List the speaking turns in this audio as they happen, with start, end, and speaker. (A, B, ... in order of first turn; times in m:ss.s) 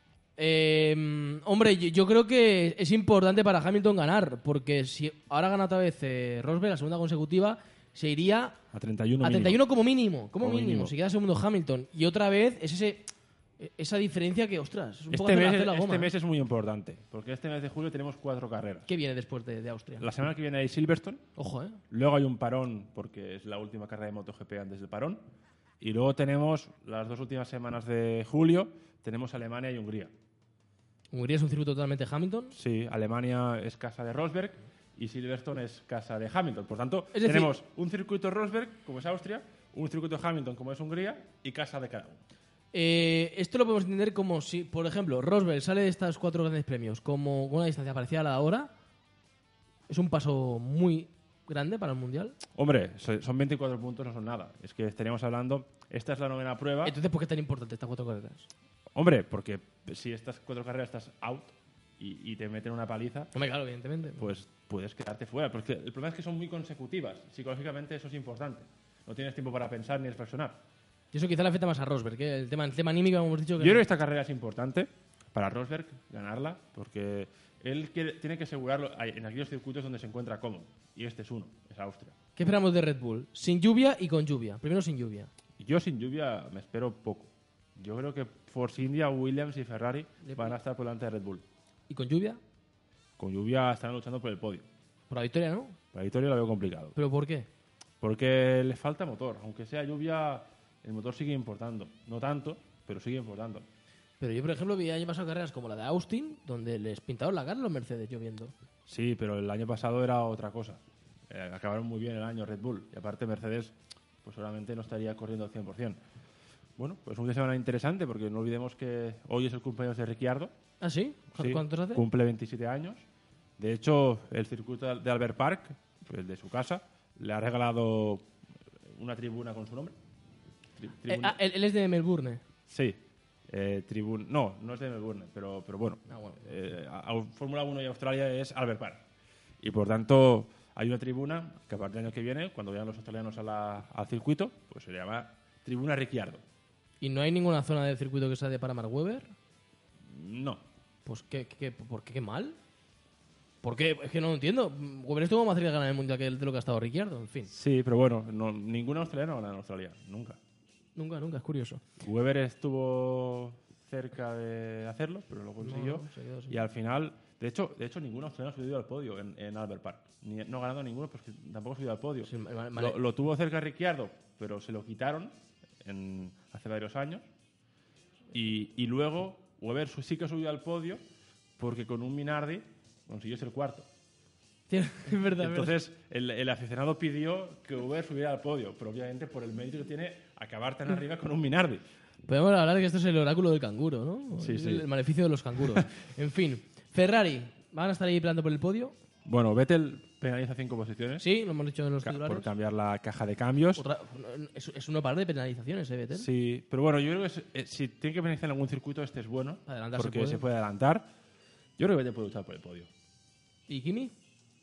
0:00.4-0:08.6 A
0:08.7-0:09.6 B
0:09.2-0:16.1 A
0:10.4-0:10.9 B
0:15.1-0:18.9 B
0:18.9-0:20.1 A
0:20.0-0:21.2 B
0:21.4-0:21.8 A
0:21.9-0:25.3 B
0:25.8-0:30.1 B
0:31.1-0:32.6 A
0:32.5-0:42.2 B
0:37.1-0:37.5 A
0:42.7-0:48.7 A
0:49.9-0:52.4 A
0:52.6-0:57.0 B
0:56.8-0:58.5 A
0:59.0-1:03.3 B
1:03.4-1:04.3 A
1:04.2-1:10.6 B
1:11.1-1:13.8 A
1:13.6-1:22.2 B
1:22.4-1:25.3 A
1:25.6-1:31.4 B
1:30.2-1:30.5 A
1:31.9-1:32.4 A
1:33.2-1:34.7 B
1:35.1-1:35.8 A
1:35.9-1:37.0 B
1:37.0-1:37.5 A
1:38.0-1:43.7 B
1:44.2-1:48.5 A
1:48.9-1:56.0 B
1:56.8-2:00.5 B
2:00.8-2:02.0 A
2:01.4-2:03.0 B
2:03.6-2:08.3 B
2:08.9-2:10.0 B
2:10.8-2:11.4 B
2:11.1-2:12.4 A
2:12.7-2:19.0 B
2:16.1-2:16.4 A
2:19.6-2:26.4 B
2:27.0-2:29.3 A
2:30.1-2:30.6 B
2:31.1-2:32.6 A
2:33.6-2:37.5 A
2:37.5-2:40.4 B
2:41.0-2:41.8 A
2:42.0-2:57.2 B
2:45.6-2:46.6 A
2:52.3-2:53.0 A
2:58.3-3:01.0 B
3:01.6-3:03.9 B
3:04.7-3:05.8 A
3:05.4-3:11.8 B
3:12.3-3:18.9 A
3:14.4-3:14.9 B
3:19.3-3:21.3 B
3:21.2-3:22.5 A
3:22.0-3:23.8 B
3:23.8-3:26.3 A
3:26.1-3:31.1 B
3:29.7-3:30.4 A
3:31.8-3:32.9 B
3:33.7-3:34.1 A